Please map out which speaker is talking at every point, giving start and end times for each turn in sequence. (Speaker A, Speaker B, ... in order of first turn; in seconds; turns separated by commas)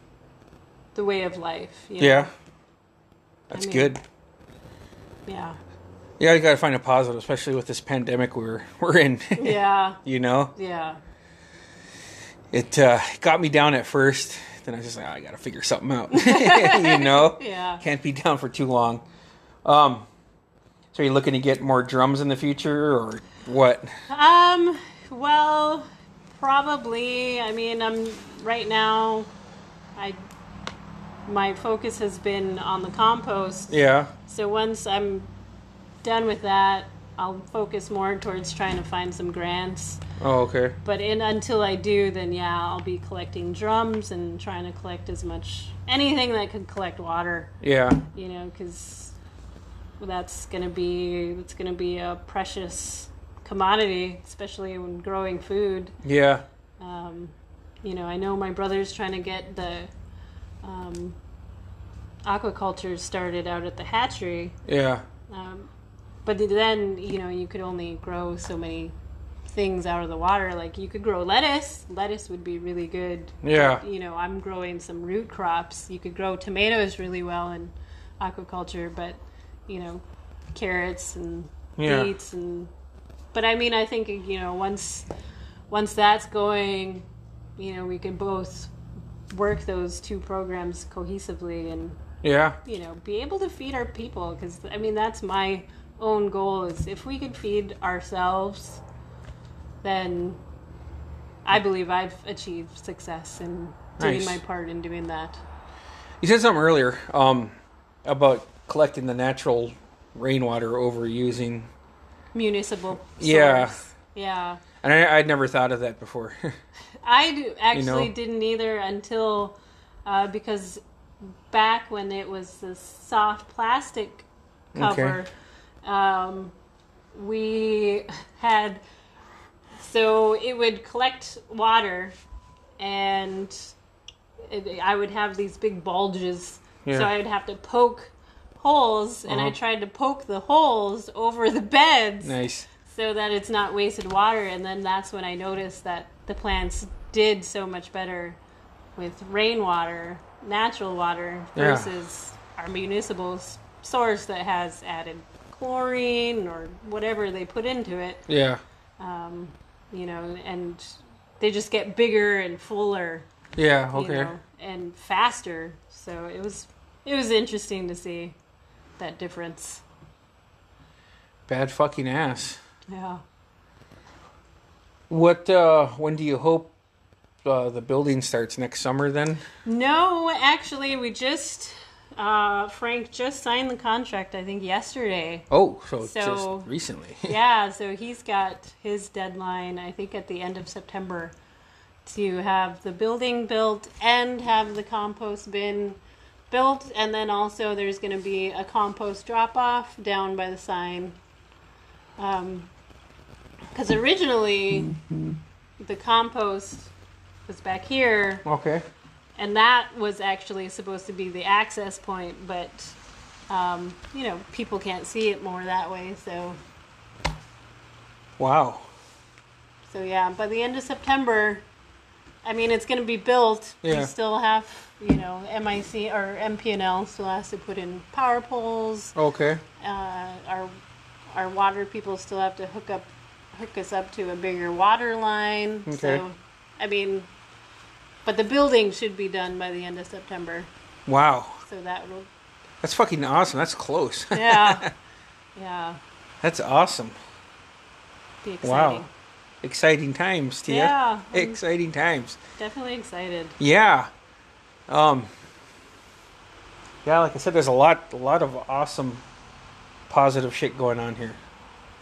Speaker A: 0.9-2.3, Speaker B: 2.0-2.3, Speaker B: 3.5-4.0, Speaker A: 3.5-4.0, Speaker A: 5.3-5.6, Speaker B: 6.2-10.5, Speaker A: 9.4-10.0, Speaker A: 10.6-11.0, Speaker B: 12.5-19.0, Speaker A: 16.1-17.8, Speaker B: 19.6-20.1, Speaker B: 20.9-23.9, Speaker A: 24.1-29.3, Speaker A: 30.0-30.2, Speaker A: 31.3-35.3, Speaker B: 33.7-34.1, Speaker A: 36.0-40.0, Speaker B: 40.2-40.8, Speaker A: 40.8-47.6, Speaker B: 47.6-48.0, Speaker A: 48.1-49.2, Speaker A: 50.0-56.0, Speaker B: 56.0-56.5, Speaker A: 56.8-59.9, Speaker A: 60.6-61.2, Speaker A: 62.3-64.6, Speaker B: 64.7-65.0, Speaker A: 65.3-65.7, Speaker A: 66.2-69.0, Speaker A: 69.5-80.0, Speaker B: 73.4-73.8, Speaker A: 80.5-82.7, Speaker B: 81.8-82.1, Speaker A: 83.3-85.1, Speaker A: 85.7-87.1, Speaker A: 87.6-88.7, Speaker A: 89.3-92.0, Speaker B: 92.2-92.6, Speaker A: 92.6-98.8, Speaker A: 99.8-100.4, Speaker A: 101.5-105.4, Speaker B: 104.0-104.4, Speaker B: 106.2-111.7, Speaker A: 112.3-114.6, Speaker B: 113.2-113.8, Speaker B: 114.8-116.5, Speaker A: 117.0-120.8, Speaker B: 117.7-118.1, Speaker A: 121.5-125.3, Speaker B: 124.8-125.2, Speaker A: 125.8-126.5, Speaker A: 127.1-128.8, Speaker A: 129.8-132.2, Speaker A: 132.8-133.7, Speaker A: 134.5-148.4, Speaker B: 139.3-139.6, Speaker B: 142.2-142.7, Speaker A: 149.0-158.3, Speaker B: 151.6-151.9, Speaker B: 158.3-158.6, Speaker A: 159.0-163.3, Speaker B: 163.6-164.3, Speaker A: 163.9-168.4, Speaker A: 169.0-169.8, Speaker B: 171.5-172.6, Speaker A: 172.9-173.2, Speaker B: 175.1-176.7, Speaker B: 177.4-179.4, Speaker A: 179.7-185.5, Speaker B: 185.5-187.3, Speaker A: 186.0-186.7, Speaker A: 187.2-191.3, Speaker A: 192.1-196.0, Speaker A: 196.5-201.2, Speaker A: 202.2-202.7, Speaker A: 203.7-204.9, Speaker A: 205.8-206.9, Speaker A: 207.5-208.4, Speaker B: 208.4-208.8, Speaker A: 209.4-213.0, Speaker A: 213.5-216.6, Speaker B: 218.4-218.9, Speaker A: 219.9-221.7, Speaker A: 222.4-229.2, Speaker B: 223.8-224.1, Speaker B: 229.2-229.6, Speaker A: 229.8-230.7, Speaker A: 231.3-237.3, Speaker B: 235.9-236.2, Speaker A: 238.3-240.7, Speaker B: 241.1-241.6, Speaker A: 241.7-242.3, Speaker B: 242.8-244.9, Speaker A: 244.3-244.8, Speaker A: 245.6-246.0, Speaker B: 246.4-247.2, Speaker A: 248.4-249.1, Speaker B: 248.6-249.1, Speaker B: 249.6-252.4, Speaker A: 250.7-251.6, Speaker A: 252.6-253.6, Speaker B: 253.6-254.1, Speaker B: 254.9-255.3, Speaker B: 257.0-259.2, Speaker B: 260.1-261.4